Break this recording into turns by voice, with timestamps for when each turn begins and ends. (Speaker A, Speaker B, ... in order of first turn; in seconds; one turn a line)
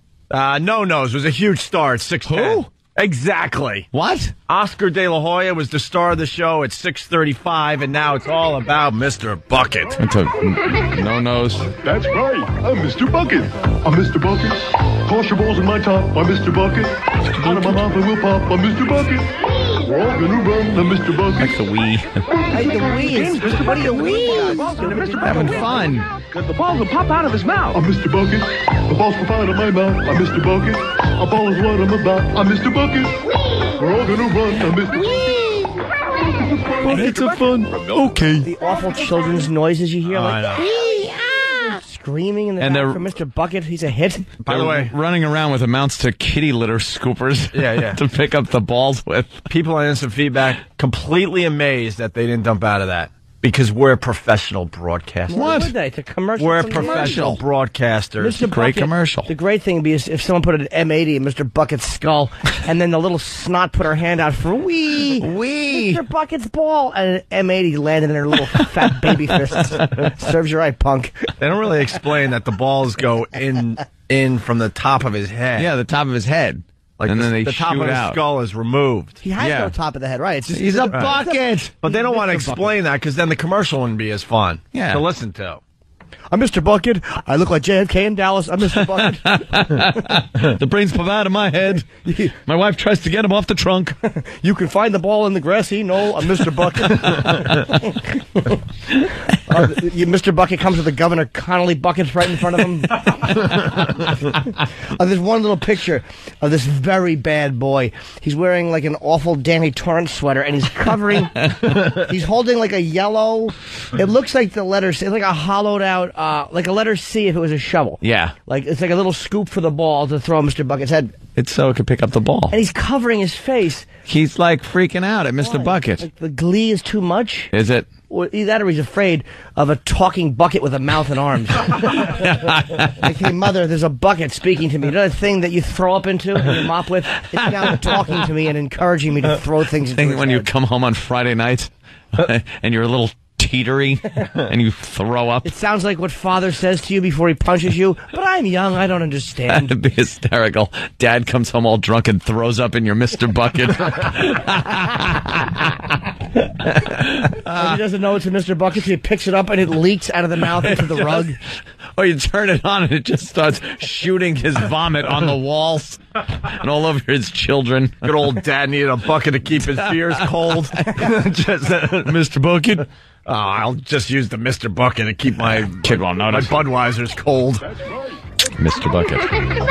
Speaker A: 0.3-3.9
Speaker B: 2.3-2.6
Speaker B: 3.9-4.3
Speaker A: 4.5-10.0
Speaker B: 10.0-11.8
Speaker C: 11.8-21.5
Speaker B: 17.2-17.9
Speaker B: 21.3-22.2
Speaker D: 22.5-25.9
Speaker E: 23.0-27.8
Speaker B: 25.2-26.1
Speaker C: 27.8-33.2
Speaker C: 33.8-35.0
Speaker D: 35.0-35.5
Speaker B: 35.1-35.5
Speaker B: 36.8-38.5
Speaker D: 38.4-44.3
Speaker A: 40.0-40.7
Speaker B: 42.6-43.0
Speaker A: 44.4-44.9
Speaker B: 44.5-49.5
Speaker A: 47.5-48.0
Speaker A: 49.5-55.7
Speaker D: 55.3-57.4
Speaker B: 55.3-55.7
Speaker A: 56.4-58.4
Speaker B: 56.7-57.4
Speaker D: 58.2-71.3
Speaker B: 58.4-59.3
Speaker B: 65.2-66.0
Speaker A: 71.4-75.7
Speaker B: 75.6-78.2
Speaker A: 77.0-79.2
Speaker D: 79.2-82.7
Speaker B: 79.4-79.7
Speaker B: 80.5-81.8
Speaker A: 81.8-85.6
Speaker B: 84.7-85.0
Speaker D: 86.3-89.8
Speaker B: 88.8-94.0
Speaker D: 91.9-92.4
Speaker D: 94.0-98.6
Speaker D: 99.4-121.1
Speaker B: 118.0-118.3
Speaker B: 121.4-122.5
Speaker D: 122.5-123.9
Speaker B: 124.1-126.0
Speaker D: 125.4-127.5
Speaker B: 127.5-127.9
Speaker D: 128.1-132.2
Speaker B: 132.0-133.1
Speaker D: 132.8-140.5
Speaker B: 137.4-138.2
Speaker B: 139.8-145.5
Speaker D: 145.4-149.7
Speaker B: 149.5-156.0
Speaker B: 156.6-157.8
Speaker D: 157.4-161.4
Speaker B: 160.6-161.3
Speaker B: 161.9-168.3
Speaker A: 168.0-172.2
Speaker B: 169.6-170.9
Speaker B: 172.1-172.8
Speaker A: 173.3-177.7
Speaker B: 175.8-176.6
Speaker B: 178.5-179.3